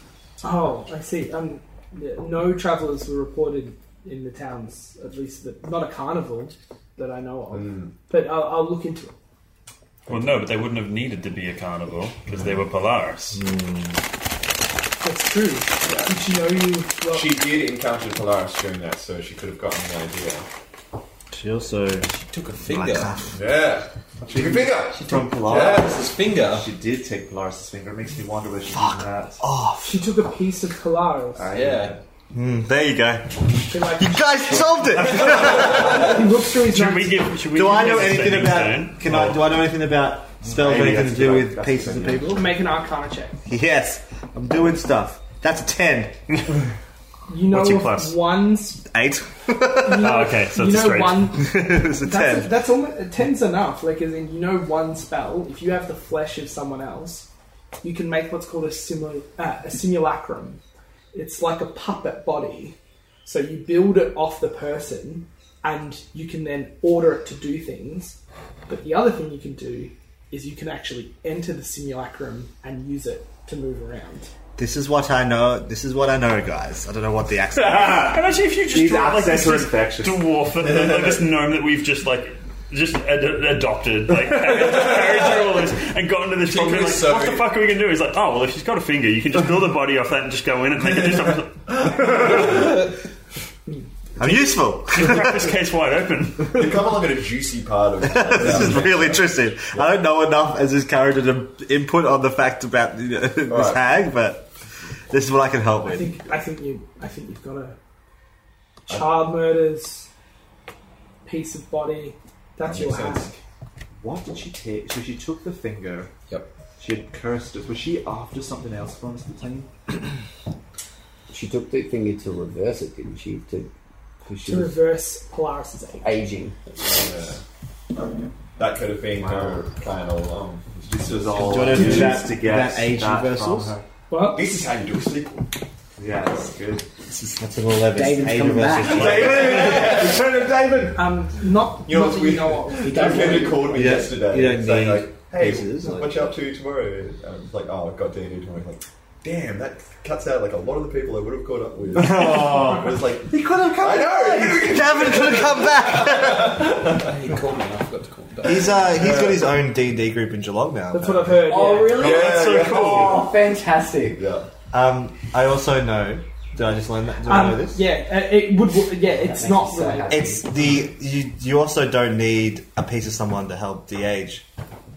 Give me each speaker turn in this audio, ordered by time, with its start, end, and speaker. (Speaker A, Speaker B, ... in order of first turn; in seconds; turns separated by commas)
Speaker A: 0.4-9.2, Speaker B: 7.5-7.9, Speaker C: 10.1-13.4, Speaker D: 13.3-14.0, Speaker A: 15.0-17.3, Speaker B: 15.8-16.2, Speaker B: 17.1-20.4, Speaker D: 21.3-23.4, Speaker E: 22.2-23.2, Speaker B: 23.3-25.9, Speaker F: 24.2-29.5, Speaker E: 25.1-26.7, Speaker D: 28.8-30.1, Speaker A: 29.9-31.5, Speaker F: 31.4-32.0, Speaker E: 31.5-32.0, Speaker D: 32.3-36.1, Speaker A: 33.7-37.4, Speaker C: 36.6-39.5, Speaker D: 37.5-42.5, Speaker F: 40.4-42.5, Speaker A: 42.3-43.4, Speaker D: 43.5-46.2, Speaker A: 47.3-48.8, Speaker C: 47.5-48.2, Speaker D: 48.8-50.2, Speaker A: 49.8-57.3, Speaker C: 50.0-51.4, Speaker D: 51.3-52.5, Speaker A: 57.8-60.6, Speaker A: 61.1-74.3, Speaker D: 74.6-78.2, Speaker F: 77.6-78.1, Speaker C: 77.8-92.6, Speaker F: 78.6-80.4, Speaker B: 80.7-81.2, Speaker B: 86.4-87.5, Speaker D: 94.2-95.5, Speaker C: 94.9-96.8, Speaker B: 96.5-99.9, Speaker D: 98.1-104.5, Speaker B: 103.5-103.8, Speaker D: 105.1-106.2, Speaker A: 105.8-107.8, Speaker A: 108.9-110.1, Speaker A: 111.2-113.3, Speaker E: 112.6-113.4, Speaker F: 114.0-116.1, Speaker F: 116.8-119.7, Speaker G: 121.3-123.7, Speaker G: 124.2-124.8, Speaker A: 124.4-126.1, Speaker G: 126.0-126.6, Speaker E: 126.8-127.1, Speaker B: 126.9-127.4, Speaker B: 128.6-132.1, Speaker F: 130.8-133.8, Speaker D: 131.4-133.8, Speaker A: 134.1-134.5, Speaker B: 134.2-135.5, Speaker F: 136.0-136.8, Speaker B: 136.3-136.6, Speaker D: 137.1-140.1, Speaker G: 137.9-140.0, Speaker B: 138.9-141.0, Speaker C: 139.0-139.5, Speaker A: 140.9-143.7, Speaker B: 141.8-157.1, Speaker G: 142.8-144.2, Speaker D: 143.7-146.1, Speaker F: 152.0-152.9, Speaker D: 152.1-152.8, Speaker D: 153.3-156.8, Speaker E: 157.0-158.9, Speaker D: 158.4-161.4, Speaker B: 158.9-159.6, Speaker A: 160.9-162.1, Speaker G: 161.4-164.2, Speaker B: 161.9-163.3, Speaker C: 162.2-163.3, Speaker B: 164.1-164.5, Speaker D: 164.7-167.8, Speaker A: 167.2-170.2, Speaker G: 169.1-170.5, Speaker D: 170.1-174.4